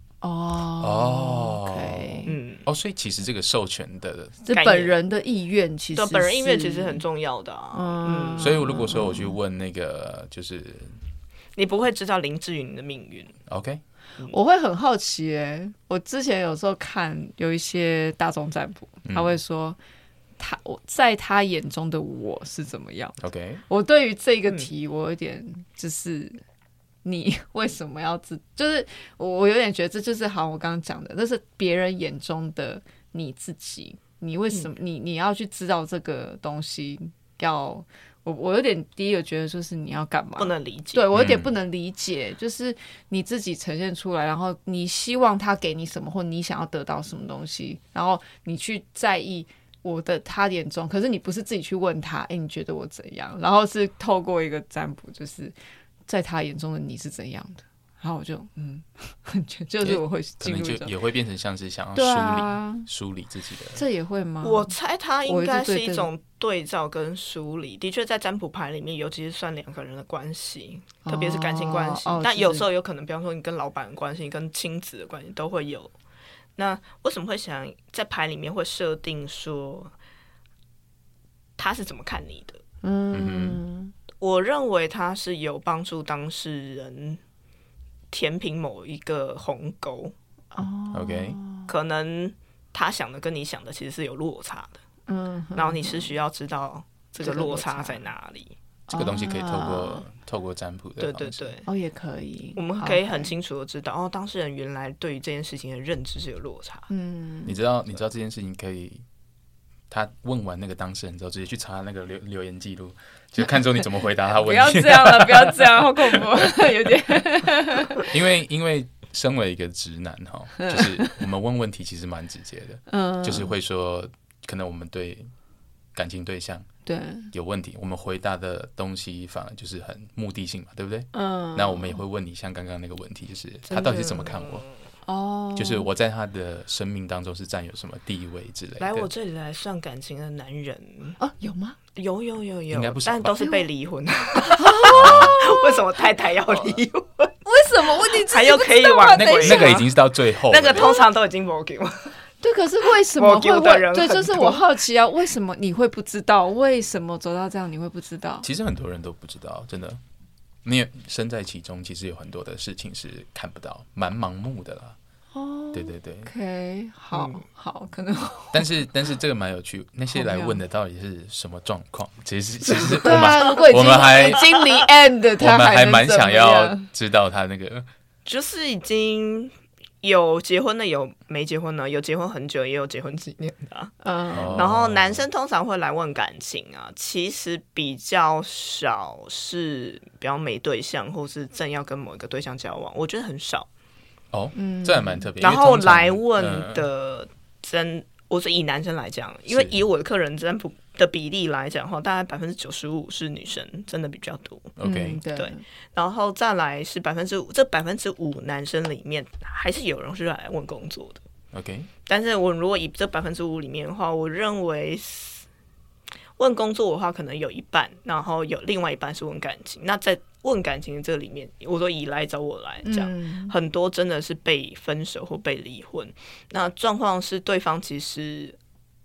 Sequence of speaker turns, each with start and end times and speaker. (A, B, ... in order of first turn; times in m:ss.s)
0:00.2-0:02.3 A
0:00.8-0:04.4 B
0:02.2-0:02.6 C
0:04.4-0:07.0 A
0:04.5-0:04.9 C
0:05.9-0:08.6 C
0:07.7-0:09.4 A
0:08.4-0:11.0 B
0:11.6-0:13.4 C
0:13.5-0:13.8 B
0:14.3-0:19.8 A
0:19.0-0:19.4 B
0:20.4-0:26.4 A
0:23.2-0:23.6 B
0:27.0-0:55.5 A
0:40.4-0:41.0 C
0:41.1-0:41.5 B
0:56.1-1:00.9 A
0:59.8-1:03.8 B
1:01.9-1:02.9 A
1:03.7-1:04.7 A
1:04.4-1:15.9 C
1:05.2-1:06.1 A
1:11.0-1:12.6 A
1:16.6-1:19.9 C
1:21.6-1:22.6 C
1:22.8-1:23.9 A
1:23.1-1:23.6 B
1:24.2-1:27.2 C
1:28.1-1:30.1 C
1:30.5-1:31.7 A
1:30.9-1:31.4 B
1:31.7-1:34.8 C
1:35.1-1:36.1 A
1:35.5-1:38.5 C
1:37.2-1:38.0 A
1:38.9-1:40.0 A
1:38.9-1:41.5 B
1:41.0-1:41.6 C
1:41.6-1:43.3 A
1:42.6-1:46.9 C
1:46.9-1:47.6 A
1:47.4-1:49.0 B
1:49.9-1:56.5 B
1:54.3-1:58.1 A
1:58.0-2:05.3 B
2:00.6-2:01.2 A
2:02.9-2:03.5 A
2:05.9-2:06.7 B
2:06.8-2:07.3 A
2:07.3-2:14.6 B
2:11.1-2:12.0 A
2:13.7-2:14.7 C
2:15.0-2:15.9 A
2:15.5-2:19.1 B
2:18.8-2:21.2 C
2:21.2-2:21.8 A
2:22.0-2:27.3 C
2:22.7-2:23.4 B
2:24.4-2:26.0 A
2:24.9-2:25.4 B
2:27.4-2:29.8 A
2:28.0-2:32.2 C
2:29.1-2:30.9 B
2:30.7-2:31.0 A
2:32.4-2:38.5 A
2:33.1-2:34.6 C
2:38.4-2:40.0 B
2:40.6-2:45.0 B
2:45.3-2:48.7 A
2:45.7-2:46.3 B
2:47.1-2:47.4 C
2:48.5-2:54.4 B
2:50.1-2:50.6 A
2:52.7-2:56.9 A
2:53.5-2:54.4 C
2:55.4-2:57.9 B
2:58.2-3:13.7 C
3:04.0-3:04.6 A
3:04.3-3:05.2 B
3:14.3-3:16.9 B
3:14.5-3:15.3 A
3:15.4-3:24.7 C
3:19.5-3:19.8 B
3:24.8-3:25.2 B
3:24.8-3:25.6 A
3:25.3-3:31.2 C
3:31.5-3:31.9 B
3:32.1-3:35.4 C
3:36.4-3:48.6 C
3:42.8-3:43.5 A